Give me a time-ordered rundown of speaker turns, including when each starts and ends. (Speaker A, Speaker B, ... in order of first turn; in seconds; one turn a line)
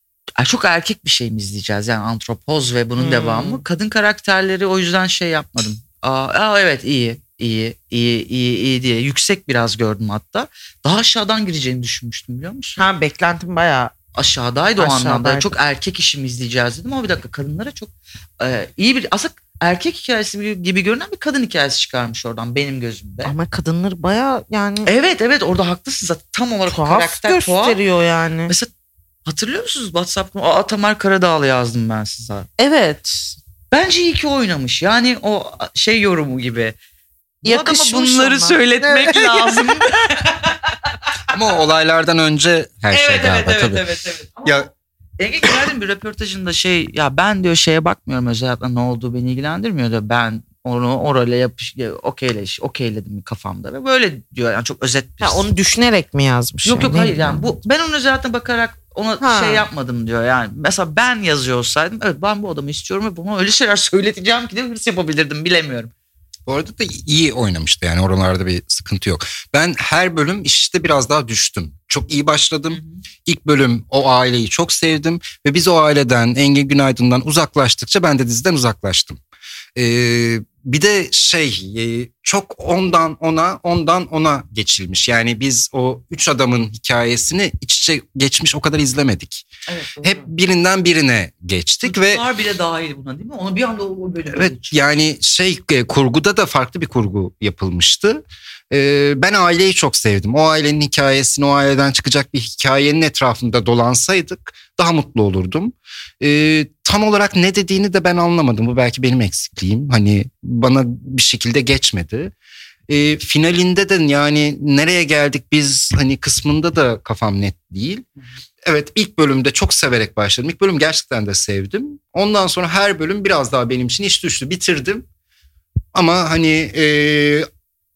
Speaker A: 0.4-12.8
Speaker B: 3.0-3.6
Speaker B: 12.8-13.9
Speaker A: 14.1-23.3
Speaker B: 14.8-15.5
Speaker B: 23.2-24.9
Speaker A: 24.9-27.8
Speaker B: 26.7-28.5
Speaker A: 29.2-32.5
Speaker B: 32.6-33.3
Speaker A: 33.7-36.8
Speaker B: 37.4-39.5
Speaker A: 37.4-40.8
Speaker C: 41.3-43.8
Speaker A: 42.9-55.5
Speaker B: 55.2-57.4
Speaker A: 56.6-65.9
Speaker B: 59.2-59.6
Speaker C: 66.5-79.2
Speaker A: 72.7-73.0
Speaker C: 79.8-89.5
Speaker A: 89.7-90.3
Speaker C: 90.0-92.2
Speaker A: 91.8-94.8
Speaker C: 94.3-112.3
Speaker C: 112.9-118.0
Speaker C: 118.7-125.0
Speaker C: 125.9-127.5